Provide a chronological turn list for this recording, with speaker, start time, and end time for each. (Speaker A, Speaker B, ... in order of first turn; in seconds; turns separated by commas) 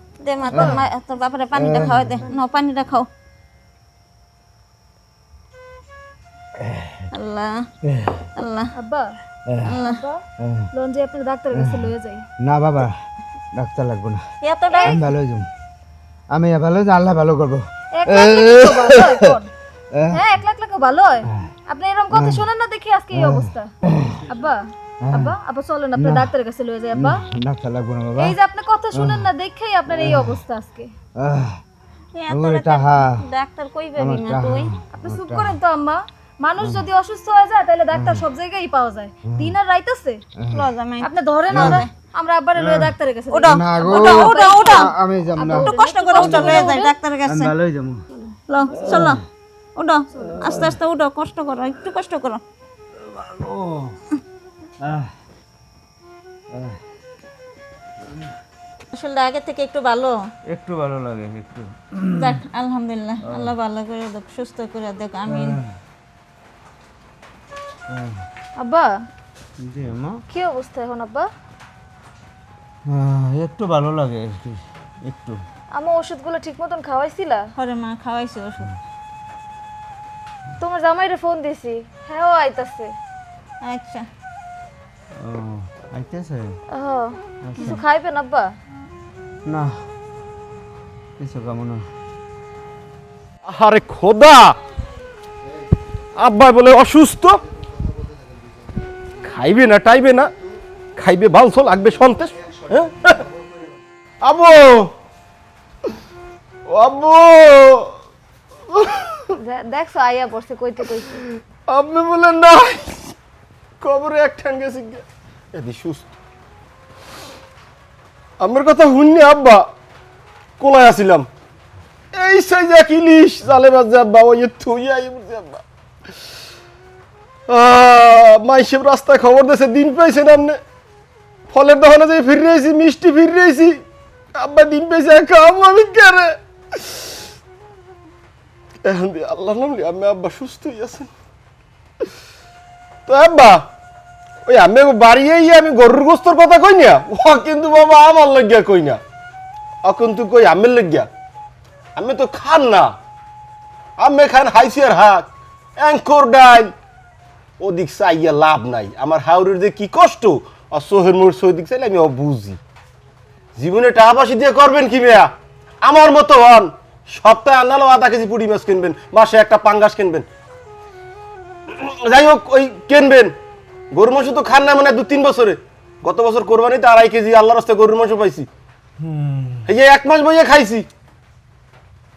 Speaker A: 0.2-3.1, Speaker B: 0.5-0.8, Speaker C: 0.5-0.8, Speaker C: 1.6-2.2, Speaker C: 6.6-7.0, Speaker A: 7.1-7.7, Speaker C: 7.9-8.2, Speaker A: 8.4-8.7, Speaker B: 8.8-9.2, Speaker C: 9.5-9.8, Speaker A: 9.6-10.0, Speaker B: 9.8-12.3, Speaker C: 10.4-10.7, Speaker C: 11.5-11.9, Speaker C: 12.4-13.0, Speaker C: 13.5-14.2, Speaker A: 14.4-15.1, Speaker B: 14.7-15.0, Speaker C: 14.9-15.5, Speaker C: 16.3-19.4, Speaker B: 17.9-19.5, Speaker C: 19.9-20.2, Speaker B: 20.1-23.7, Speaker C: 22.1-22.4, Speaker C: 23.1-24.2, Speaker B: 24.3-27.2, Speaker C: 25.0-25.4, Speaker C: 26.0-26.3, Speaker C: 26.9-28.4, Speaker B: 28.2-30.9, Speaker C: 28.9-29.3, Speaker C: 29.9-30.4, Speaker C: 31.2-31.6, Speaker A: 32.1-34.7, Speaker C: 32.3-33.2, Speaker C: 34.0-35.5, Speaker B: 34.9-40.2, Speaker C: 36.6-36.8, Speaker C: 37.9-38.2, Speaker C: 39.3-39.5, Speaker C: 40.4-40.7, Speaker A: 40.5-41.9, Speaker B: 41.0-46.9, Speaker C: 41.5-41.9, Speaker C: 42.6-46.6, Speaker A: 43.3-44.9, Speaker A: 45.6-47.5, Speaker C: 47.3-48.0, Speaker A: 48.5-49.2, Speaker C: 48.8-49.2, Speaker A: 49.8-52.4, Speaker C: 50.4-50.8, Speaker C: 53.0-54.0, Speaker C: 54.8-55.1, Speaker C: 56.5-56.8, Speaker A: 58.9-60.2, Speaker C: 60.5-62.4, Speaker A: 62.2-65.6, Speaker C: 63.2-63.5, Speaker C: 65.3-65.7, Speaker C: 67.9-68.2, Speaker B: 68.6-68.9, Speaker C: 69.6-70.2, Speaker B: 70.3-71.3, Speaker C: 72.9-75.4, Speaker B: 75.8-77.5, Speaker A: 77.6-78.8, Speaker B: 80.6-82.9, Speaker A: 83.6-84.1, Speaker C: 85.2-86.6, Speaker B: 86.7-88.5, Speaker C: 87.4-87.8, Speaker C: 89.5-89.8, Speaker C: 91.2-91.8, Speaker D: 93.5-94.6, Speaker D: 96.2-97.4, Speaker D: 99.2-100.3, Speaker D: 101.0-103.3, Speaker D: 104.2-104.9, Speaker D: 106.7-107.9, Speaker D: 108.7-109.3, Speaker B: 109.4-111.2, Speaker D: 111.7-113.1, Speaker D: 113.8-116.1, Speaker D: 118.4-119.7, Speaker D: 120.6-121.3, Speaker D: 122.1-125.6, Speaker D: 127.5-130.6, Speaker D: 131.5-133.8, Speaker D: 134.3-137.1, Speaker D: 138.8-141.1, Speaker D: 143.1-143.7, Speaker D: 144.5-149.0, Speaker D: 149.8-151.1, Speaker D: 152.0-152.9, Speaker D: 154.0-155.3, Speaker D: 155.8-156.7, Speaker D: 157.6-162.6, Speaker D: 163.6-170.3, Speaker D: 171.7-173.3, Speaker D: 173.9-178.5, Speaker C: 179.0-179.8, Speaker D: 179.7-180.9